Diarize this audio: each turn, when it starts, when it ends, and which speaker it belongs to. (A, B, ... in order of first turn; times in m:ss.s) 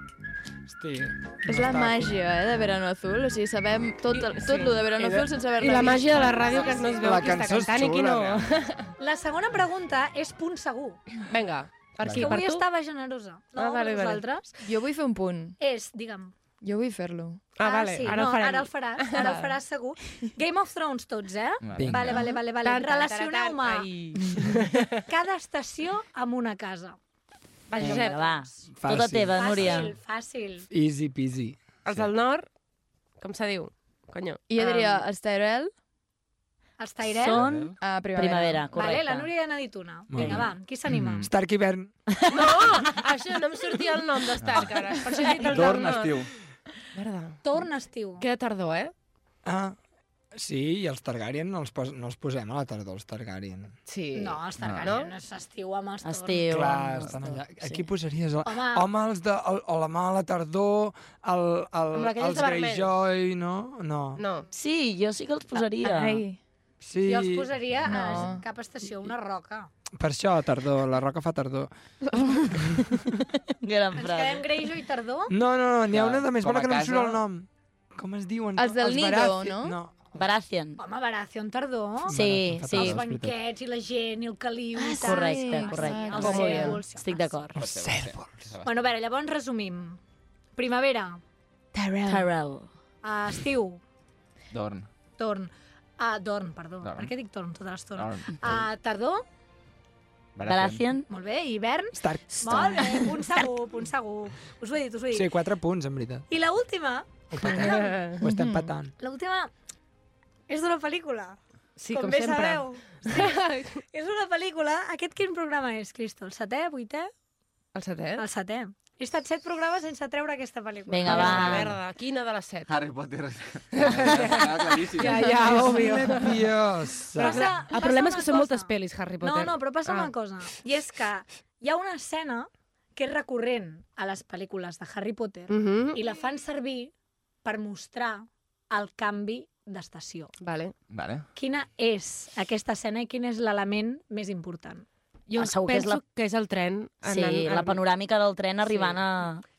0:00.7-0:02.2 A
0:01.5-0:06.6 B
0:04.2-0:08.9 C
0:06.6-0:07.0 D
0:07.0-0:08.4 A
0:09.0-0:11.0 D
0:11.3-0:12.6 C
0:12.1-0:14.5 D
0:13.6-0:14.2 C
0:14.6-0:15.6 B
0:15.6-0:16.3 D
0:16.6-0:17.5 B
0:17.6-0:19.4 C
0:17.6-0:23.9 D
0:19.2-0:19.6 B
0:21.6-0:22.2 E
0:21.7-0:22.2 A
0:22.2-0:25.0 C
0:25.0-0:27.0 D
0:27.7-0:28.3 C
0:27.8-0:30.0 F
0:27.8-0:28.6 D
0:28.7-0:29.5 A
0:29.3-0:30.7 D
0:30.7-0:31.6 A
0:31.8-0:32.5 C
0:33.2-0:34.7 C
0:34.5-0:35.7 B
0:34.6-0:35.0 D
0:36.8-0:37.4 D
0:37.1-0:39.3 F
0:37.3-0:37.7 E
0:37.8-0:38.6 B
0:38.7-0:41.2 D
0:40.1-0:40.5 A
0:40.2-0:40.4 E
0:40.9-0:41.3 E
0:41.2-0:41.9 A
0:42.1-0:42.4 F
0:42.3-0:46.2 C
0:44.4-0:44.8 E
0:45.3-0:46.3 E
0:47.0-0:47.4 C
0:47.4-0:48.3 D
0:48.2-0:48.9 C
0:49.4-0:49.8 A
0:50.3-0:53.8 A
0:53.9-0:55.1 C
0:54.1-0:56.7 D
0:54.6-0:54.9 E
0:56.0-0:57.9 F
0:56.5-1:04.2 A
0:58.4-0:58.9 D
1:01.9-1:02.9 C
1:04.2-1:04.4 C
1:04.5-1:06.2 F
1:05.8-1:06.4 B
1:06.8-1:08.3 A
1:07.1-1:09.7 D
1:07.9-1:08.4 B
1:10.0-1:11.7 A
1:12.5-1:13.1 A
1:13.6-1:14.5 F
1:14.0-1:15.3 D
1:15.3-1:20.0 A
1:15.9-1:17.2 E
1:18.6-1:19.8 B
1:20.1-1:20.8 F
1:20.8-1:27.4 D
1:22.1-1:23.3 A
1:22.1-1:23.0 F
1:24.8-1:27.6 F
1:25.0-1:26.7 B
1:26.1-1:26.8 C
1:27.6-1:28.4 A
1:27.6-1:28.8 E
1:28.6-1:30.0 D
1:30.6-1:31.2 D
1:31.8-1:32.7 F
1:33.0-1:33.8 D
1:34.5-1:34.9 E
1:35.2-1:39.2 D
1:36.8-1:37.1 E
1:38.0-1:38.6 E
1:40.4-1:40.8 E
1:40.4-1:41.1 F
1:41.1-1:45.3 D
1:42.0-1:43.2 A
1:45.1-1:46.3 A
1:46.3-1:48.1 D
1:47.3-1:48.9 A
1:47.5-1:48.2 C
1:48.2-1:48.7 B
1:49.0-1:49.5 D
1:50.5-1:51.4 D
1:51.8-1:53.8 C
1:51.9-1:53.4 D
1:53.9-1:57.1 D
1:57.7-1:58.2 C
1:58.2-2:01.7 D
2:00.9-2:01.8 F
2:01.0-2:02.7 C
2:02.7-2:05.6 E
2:03.7-2:06.5 C
2:05.2-2:07.6 A
2:07.2-2:10.1 C
2:07.2-2:16.9 D
2:15.5-2:16.0 C
2:17.4-2:20.3 D
2:20.4-2:20.7 C
2:20.9-2:21.3 E
2:21.4-2:24.8 D
2:25.3-2:27.8 C
2:25.4-2:26.0 F
2:27.0-2:29.4 F
2:28.6-2:29.0 C